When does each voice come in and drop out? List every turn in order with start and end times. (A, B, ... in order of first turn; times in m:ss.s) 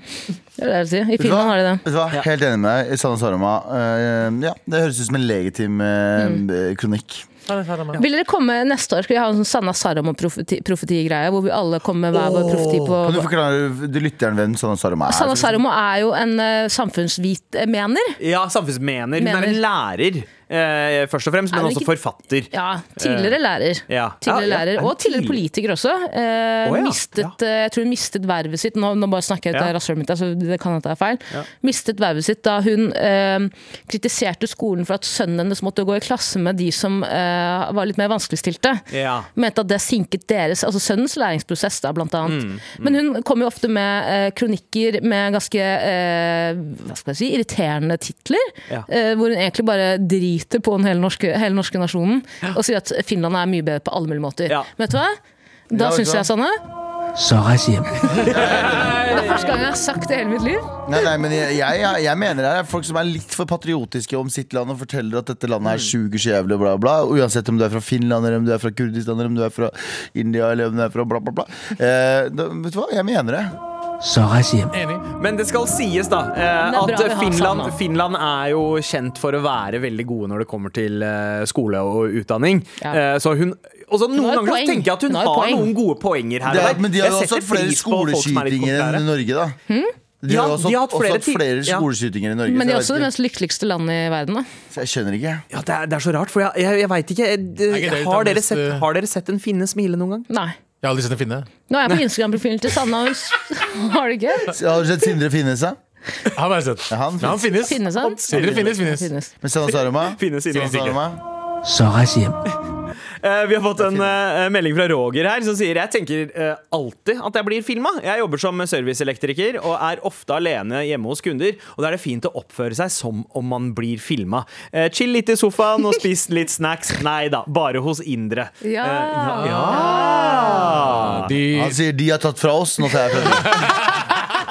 0:00.6-0:01.8 A
0:01.2-0:07.3 B
0:07.5-0:08.0 C
0:07.9-0:13.3 A
0:12.1-0:15.6 B
0:15.1-0:18.2 A
0:18.2-0:23.4 D
0:19.2-0:19.6 A
0:21.5-0:21.9 A
0:22.5-0:55.2 A
0:23.9-0:25.4 D
0:26.6-0:27.3 D
0:38.9-0:39.3 D
0:42.2-0:43.0 D
0:55.7-0:56.6 A
0:55.7-0:56.3 B
0:57.2-0:58.4 E
0:58.2-0:59.0 B
0:58.2-0:59.5 D
0:58.8-1:00.6 A
1:00.8-1:13.5 B
1:14.0-1:14.8 E
1:14.7-1:15.0 C
1:15.2-1:29.0 D
1:16.6-1:17.7 A
1:24.1-1:25.7 A
1:26.4-1:29.6 B
1:30.2-1:33.1 B
1:30.3-1:31.8 D
1:32.5-1:34.4 A
1:34.7-1:35.4 B
1:35.5-1:40.3 D
1:37.7-1:38.8 C
1:40.3-1:40.6 A
1:40.8-1:41.5 C
1:41.7-1:44.5 A
1:44.5-1:45.8 B
1:46.3-1:49.1 C
1:46.9-1:47.7 B
1:47.6-1:49.3 A
1:48.3-1:48.7 D
1:48.3-1:48.6 B
1:49.4-1:51.2 B
1:50.0-1:51.0 D
1:51.6-1:52.4 E
1:53.2-2:11.3 D
2:08.6-2:10.8 A
2:09.4-2:11.8 C
2:11.5-2:13.7 B
2:13.4-2:13.7 C